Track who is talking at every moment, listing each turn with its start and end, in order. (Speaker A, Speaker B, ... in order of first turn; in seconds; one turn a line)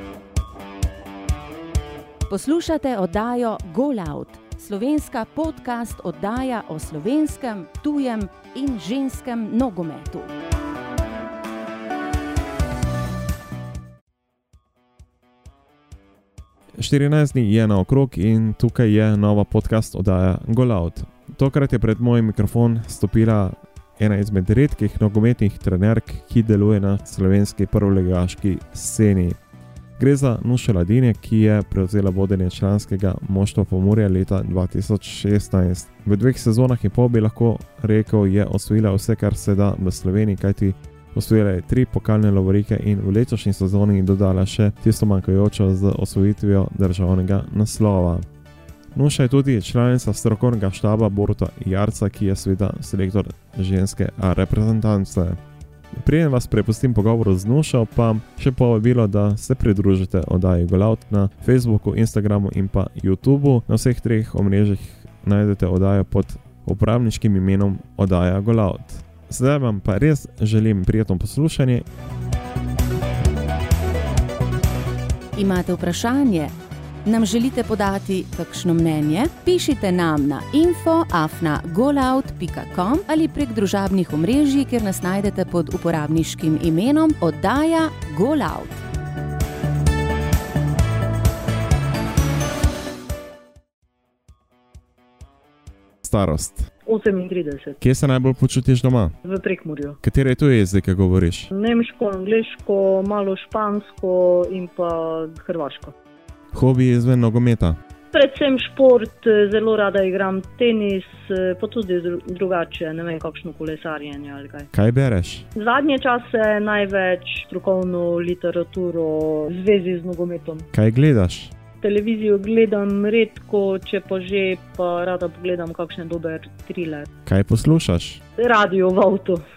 Speaker A: 2.3-10.3
Speaker B: 16.8-29.4
Speaker B: 30.0-48.2
Speaker B: 48.9-55.4
Speaker B: 55.9-71.9
Speaker A: 75.4-76.5
Speaker A: 77.0-88.8
Speaker B: 96.0-96.7
Speaker C: 96.9-97.8
Speaker B: 97.8-99.2
Speaker C: 99.2-100.0
Speaker B: 100.0-101.5
Speaker C: 101.5-106.0
Speaker B: 106.5-107.8
Speaker C: 108.1-114.7
Speaker B: 114.7-115.5
Speaker C: 115.5-120.7
Speaker B: 120.7-121.5
Speaker C: 121.8-127.1
Speaker B: 127.3-128.2
Speaker C: 128.4-129.4